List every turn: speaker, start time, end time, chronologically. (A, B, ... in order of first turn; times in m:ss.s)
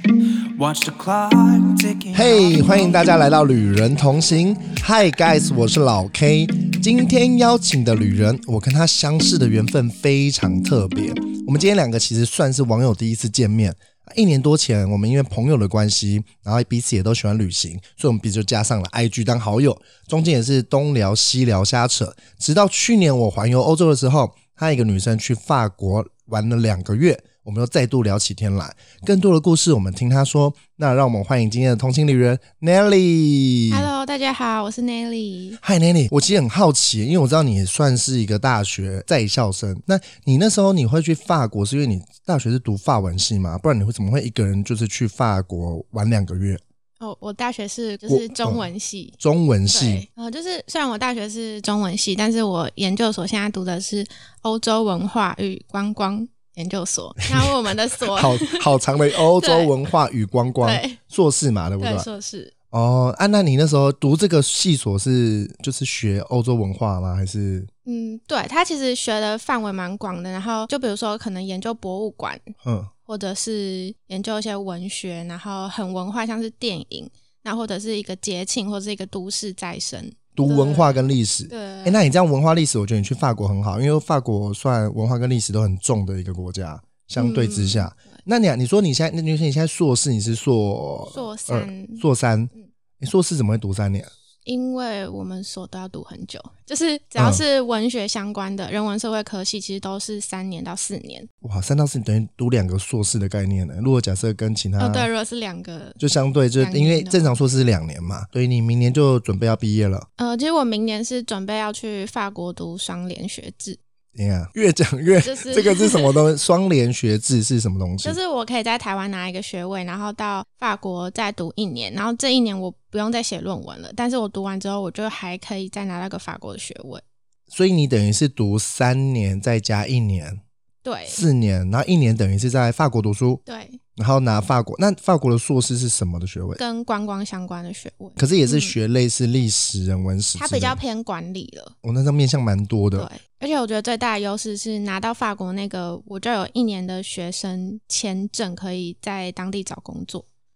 0:00.6-0:03.3 A
0:02.1-0:33.9 B
0:33.7-0:35.6 C
0:35.6-0:46.6 B
0:47.0-0:49.2 C
0:48.1-0:48.6 B
0:49.2-0:50.0 B
0:49.7-0:59.7 C
0:57.3-1:02.1 B
1:00.6-1:01.0 C
1:01.8-1:02.5 C
1:02.7-1:07.7 B
1:07.9-1:12.5 C
1:12.6-1:12.9 B
1:13.1-1:22.0 C
1:20.4-1:34.1 B
1:27.2-1:27.9 C
1:31.1-1:32.0 C
1:34.5-1:41.3 C
1:37.2-1:37.4 B
1:41.4-1:45.1 B
1:44.8-1:46.0 C
1:46.0-1:50.1 B
1:46.6-1:47.4 C
1:50.2-1:53.8 C
1:54.2-1:58.2 B
1:55.2-1:56.2 C
1:58.0-2:07.0 C
2:07.5-2:10.4 B
2:10.8-2:11.2 C
2:11.1-2:13.4 B
2:13.5-2:13.8 C
2:14.0-2:16.6 B
2:16.6-2:18.8 C
2:18.2-2:20.8 B
2:20.4-2:21.7 C
2:21.8-2:23.1 B
2:22.9-2:30.2 C